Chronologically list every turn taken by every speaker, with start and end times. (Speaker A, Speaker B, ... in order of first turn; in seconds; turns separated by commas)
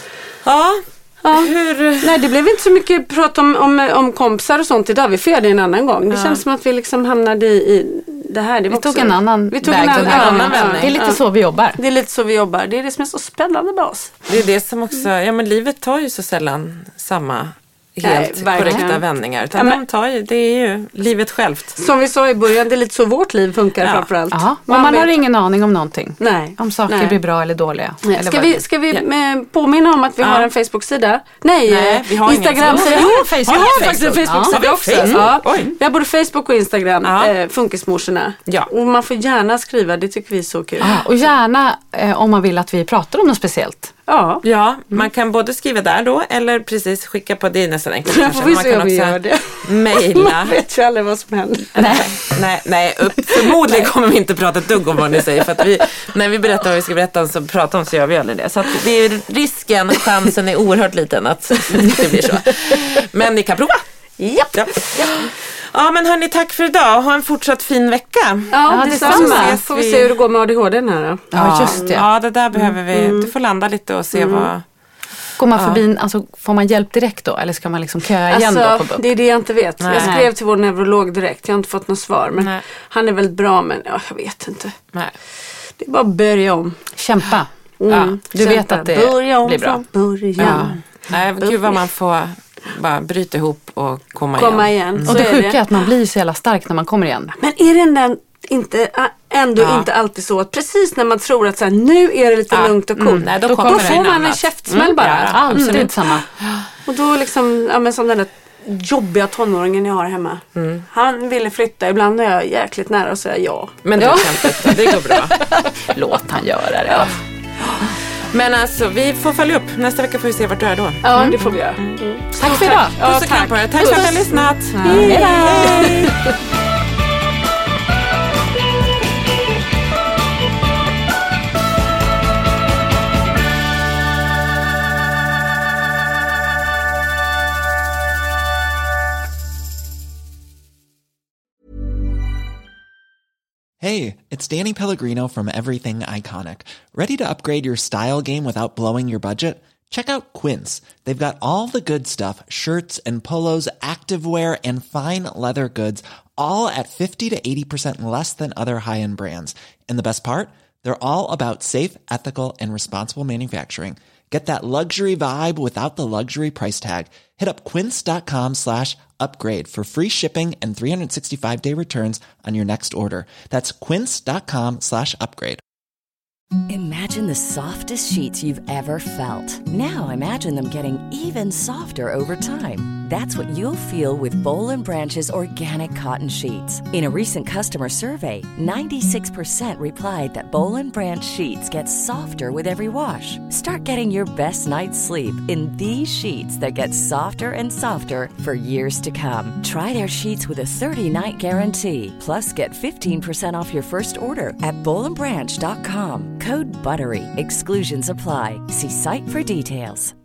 Speaker A: 0.5-2.3, Speaker B: 1.2-11.2, Speaker A: 6.1-6.4, Speaker C: 8.7-11.8, Speaker A: 9.7-10.9, Speaker B: 11.8-14.2, Speaker A: 14.3-21.8, Speaker B: 18.0-19.8, Speaker C: 18.6-18.9, Speaker B: 21.8-25.1, Speaker A: 23.8-24.1, Speaker C: 24.3-28.6, Speaker B: 26.2-27.2, Speaker B: 28.1-41.0, Speaker A: 30.2-30.5, Speaker A: 31.7-35.7, Speaker C: 32.6-35.3, Speaker A: 37.0-37.3, Speaker C: 40.8-43.9, Speaker B: 44.1-44.4, Speaker A: 44.4-50.6, Speaker B: 48.1-52.0, Speaker C: 51.8-52.1, Speaker A: 51.9-63.8, Speaker B: 64.2-65.3, Speaker A: 64.5-70.1, Speaker B: 68.5-71.8, Speaker C: 68.7-69.6, Speaker C: 71.3-72.0, Speaker A: 71.4-74.6, Speaker B: 72.6-73.3, Speaker B: 74.2-74.5, Speaker C: 75.4-79.1, Speaker A: 75.5-75.8, Speaker B: 78.3-84.8, Speaker A: 79.8-80.2, Speaker C: 80.0-80.3, Speaker A: 82.4-82.6, Speaker B: 85.8-86.8, Speaker C: 87.0-89.8, Speaker B: 87.8-91.8, Speaker C: 90.4-90.7, Speaker A: 90.4-95.2, Speaker B: 94.4-95.6, Speaker C: 95.0-97.3, Speaker B: 97.3-106.0, Speaker A: 99.6-99.9, Speaker A: 102.5-105.9, Speaker C: 103.0-104.1, Speaker C: 104.7-106.3, Speaker B: 106.9-114.3, Speaker A: 110.6-110.8, Speaker A: 113.8-115.4, Speaker C: 114.0-117.2, Speaker B: 116.9-117.9, Speaker A: 118.3-126.2, Speaker B: 121.0-126.3, Speaker C: 122.4-123.0, Speaker C: 123.8-124.1, Speaker C: 124.8-126.0, Speaker D: 143.8-175.6, Speaker E: 176.7-210.1